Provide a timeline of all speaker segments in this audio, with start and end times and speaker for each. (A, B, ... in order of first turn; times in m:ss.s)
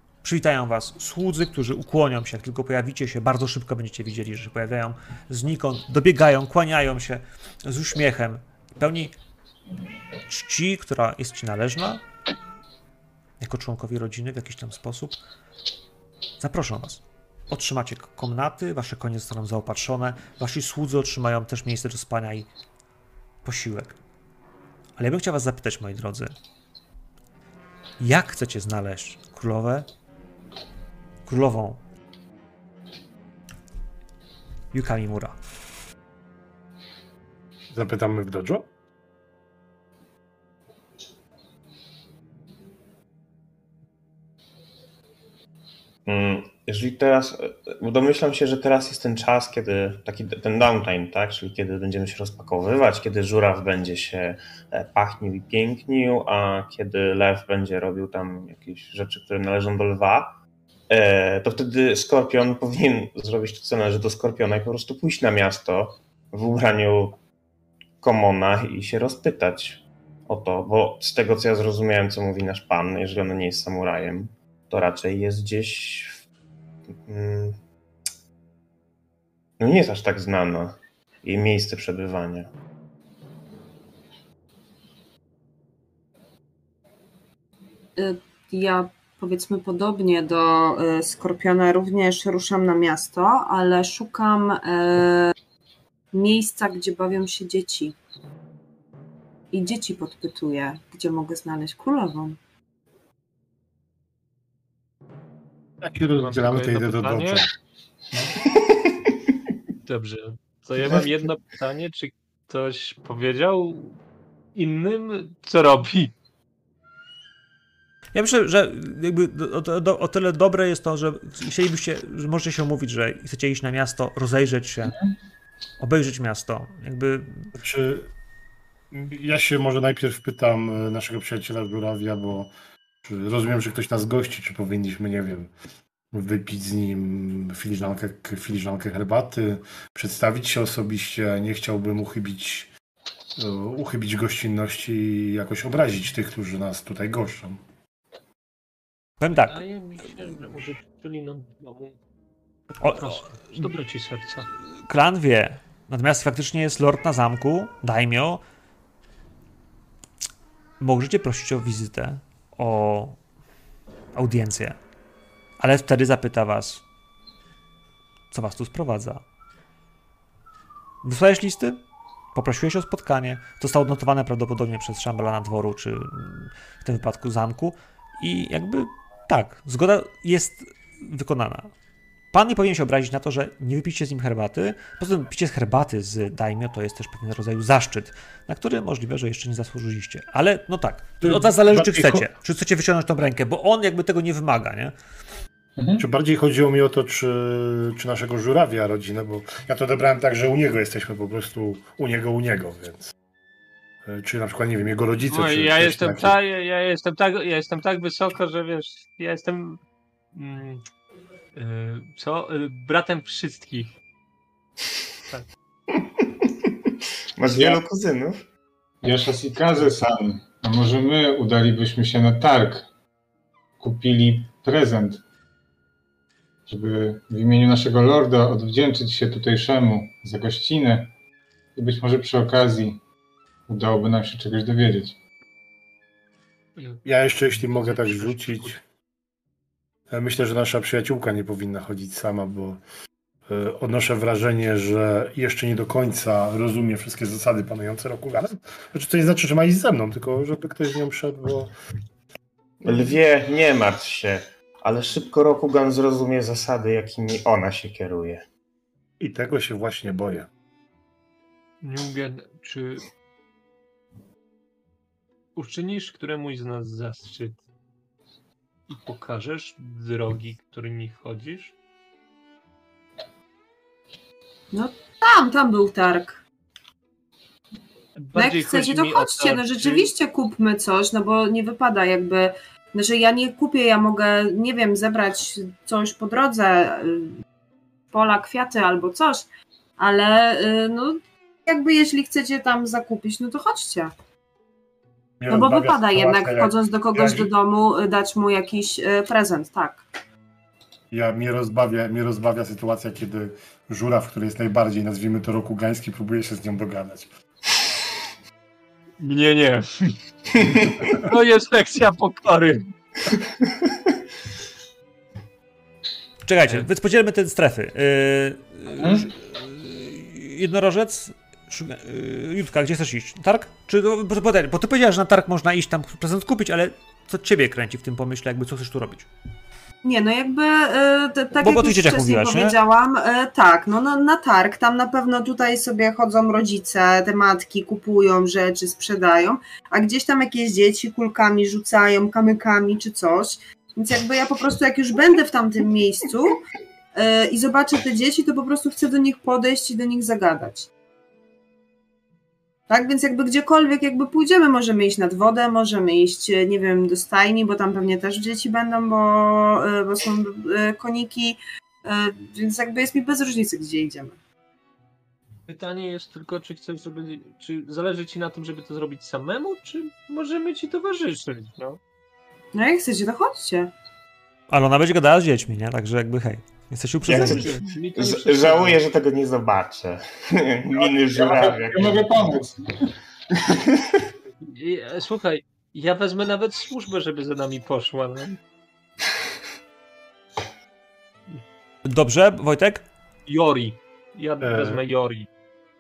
0:00.2-0:09.1 A
0:10.3-0:12.0 A
0:13.4-0:15.2 A
0:16.4-0:22.5 A
0:23.4-0:24.0 A
0:25.0-0:26.3 A
0:28.0-0:29.9 A
0:31.2-0:31.8 A
0:34.7-0:35.4 A
0:37.7-0:38.7 B
0:46.0-1:00.4 C
1:00.9-1:07.2 C
1:08.0-1:16.2 C
1:17.0-1:17.6 C
1:19.6-1:22.5 C
1:28.0-1:35.3 D
1:36.1-1:38.0 D
1:39.5-1:42.4 D
1:45.8-1:47.5 B
1:46.2-1:47.5 E
1:49.8-1:54.0 E
1:54.5-1:56.1 E
1:58.1-2:05.0 A
2:05.8-2:07.5 A
2:07.5-2:08.1 B
2:08.9-2:12.5 B
2:13.0-2:15.5 B
2:16.1-2:22.7 B
2:23.4-2:27.6 B
2:29.2-2:29.6 A
2:29.3-2:32.0 E
2:32.8-2:33.7 A
2:32.8-2:34.5 E
2:34.9-2:38.4 A
2:40.8-2:43.2 A
2:44.1-2:44.8 A
2:45.6-2:46.8 A
2:48.3-2:49.2 A
2:51.0-2:51.8 A
2:52.3-3:01.7 A
3:02.3-3:14.9 A
3:11.2-3:12.3 B
3:15.8-3:16.0 F
3:16.0-3:23.1 B
3:24.0-3:26.4 B
3:25.3-3:29.8 E
3:30.3-3:30.8 E
3:31.5-3:33.9 E
3:36.4-3:36.7 C
3:37.4-3:38.4 C
3:37.5-3:37.8 F
3:39.0-3:42.8 F
3:43.8-3:45.2 F
3:46.7-3:51.1 F
3:51.8-3:53.0 F
3:53.7-3:55.2 F
3:56.8-3:58.8 E
3:57.0-3:58.8 B
4:00.1-4:02.8 B
4:03.5-4:11.7 B
4:12.8-4:18.4 C
4:19.2-4:20.5 B
4:21.8-4:23.0 E
4:25.5-4:27.6 E
4:28.9-4:31.7 E
4:34.7-4:36.4 D
4:38.2-4:40.1 E
4:38.3-4:47.4 D
4:48.1-4:49.4 D
4:50.0-4:54.1 D
4:55.4-4:57.5 B
4:55.5-5:00.0 D
5:01.1-5:07.3 B
5:09.2-5:13.4 E
5:16.4-5:29.3 A
5:19.0-5:19.3 F
5:30.0-5:46.6 D
5:31.6-5:32.8 A
5:47.1-5:50.9 D
5:52.9-6:04.4 D
6:05.7-6:12.0 E
6:12.7-6:13.9 D
6:14.7-6:17.7 A
6:17.2-6:22.5 C
6:17.3-6:19.0 E
6:21.0-6:23.1 F
6:23.8-6:24.2 C
6:24.6-6:28.6 E
6:32.0-6:33.0 A
6:33.5-6:35.5 E
6:34.6-6:35.0 B